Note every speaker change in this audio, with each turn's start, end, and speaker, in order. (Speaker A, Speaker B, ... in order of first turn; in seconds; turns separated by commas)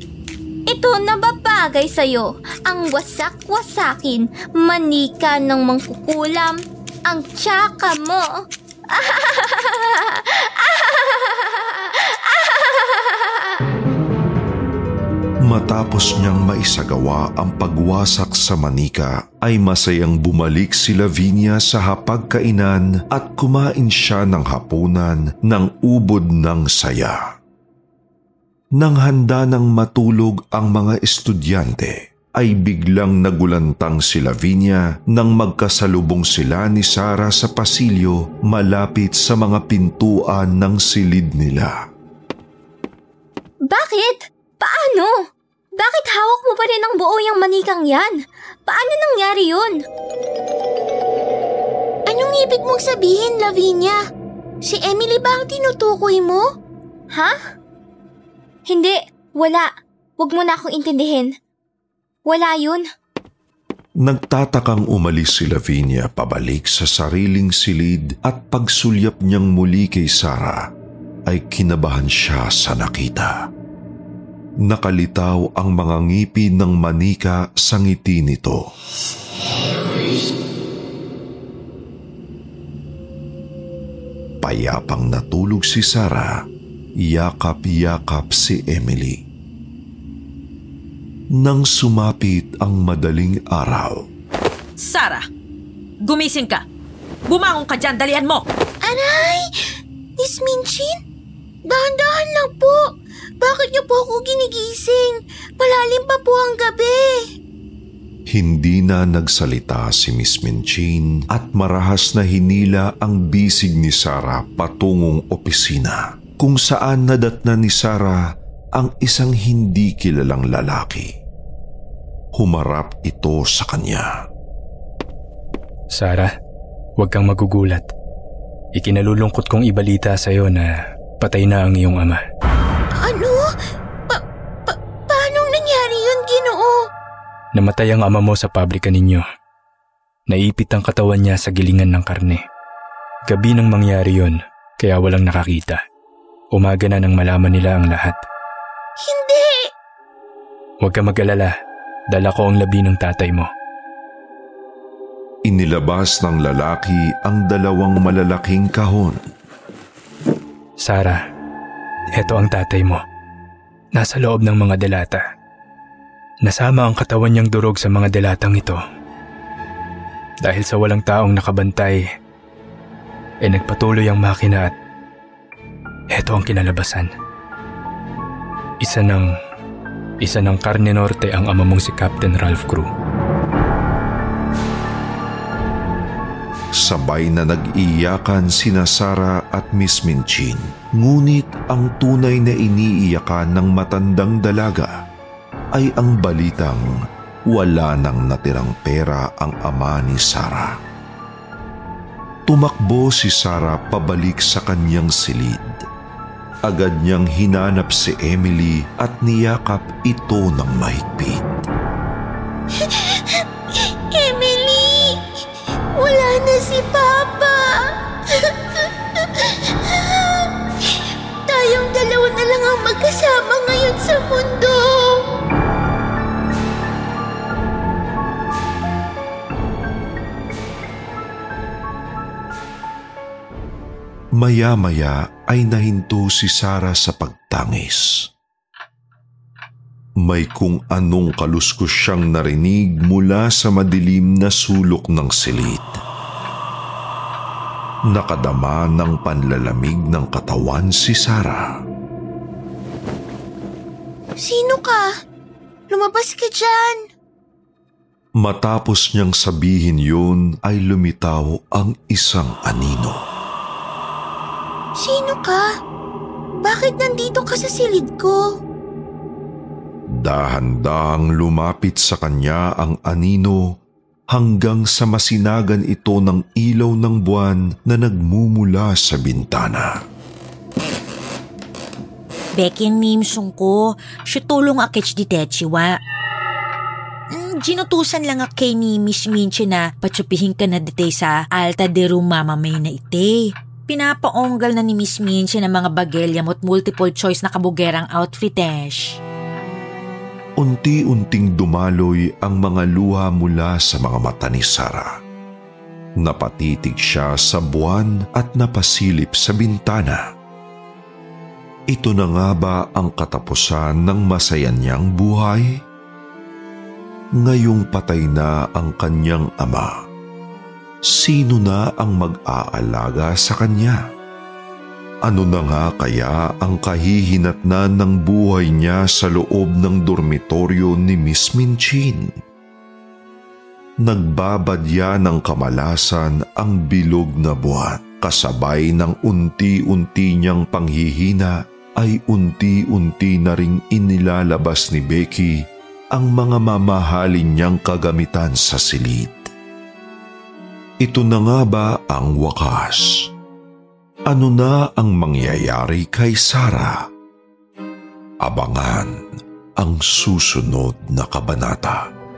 Speaker A: 0.7-8.3, Speaker A: 8.9-13.4, Speaker B: 15.4-27.2, Speaker B: 28.8-41.7, Speaker A: 43.7-45.1, Speaker A: 45.8-48.1, Speaker A: 48.7-49.8, Speaker C: 52.1-54.0, Speaker C: 54.7-56.4, Speaker A: 58.7-61.3, Speaker A: 62.2-62.8, Speaker B: 64.0-70.6, Speaker B: 71.3-73.3, Speaker B: 74.6-78.6, Speaker B: 84.4-86.3, Speaker B: 87.0-89.2, Speaker B: 91.4-94.0, Speaker D: 94.8-95.2, Speaker D: 96.0-96.6, Speaker D: 97.3-98.4, Speaker C: 98.8-99.4, Speaker C: 100.2-100.9, Speaker C: 101.7-102.8, Speaker C: 103.4-107.1, Speaker B: 108.3-118.2, Speaker B: 118.8-121.1, Speaker B: 122.4-124.1, Speaker E: 125.9-126.3, Speaker E: 127.0-127.8, Speaker E: 128.8-130.7, Speaker E: 131.2-132.2, Speaker C: 133.0-133.5, Speaker C: 134.1-136.8, Speaker E: 137.6-139.2, Speaker E: 140.3-142.4, Speaker E: 143.3-145.8, Speaker E: 146.5-148.2, Speaker C: 149.0-149.7, Speaker E: 150.8-151.5, Speaker E: 152.1-153.5, Speaker B: 155.5-159.2, Speaker E: 160.8-161.2, Speaker E: 162.1-163.0, Speaker E: 164.0-165.2, Speaker E: 166.4-168.8, Speaker E: 170.4-172.0, Speaker E: 173.4-174.7, Speaker E: 176.1-177.1, Speaker E: 178.8-179.3, Speaker E: 180.2-182.9, Speaker B: 186.8-194.9, Speaker B: 195.7-196.9, Speaker B: 197.5-200.7, Speaker B: 202.5-205.8, Speaker B: 206.7-211.6, Speaker C: 212.8-215.2, Speaker C: 215.9-225.2, Speaker B: 234.4-238.3, Speaker B: 240.2-246.0, Speaker B: 248.1-251.6, Speaker C: 254.4-255.0, Speaker C: 255.9-257.0, Speaker B: 258.4-263.2, Speaker C: 265.0-265.6, Speaker C: 266.6-268.4, Speaker B: 270.1-273.8, Speaker B: 274.3-279.9, Speaker F: 282.6-285.9, Speaker F: 287.3-299.2, Speaker B: 300.6-305.1, Speaker B: 306.2-310.2, Speaker B: 311.9-315.8, Speaker B: 317.4-319.9, Speaker B: 321.1-324.0, Speaker B: 325.2-332.3, Speaker B: 334.0-349.4, Speaker B: 351.0-353.3, Speaker B: 354.3-357.0, Speaker B: 358.4-359.2, Speaker B: 359.8-362.0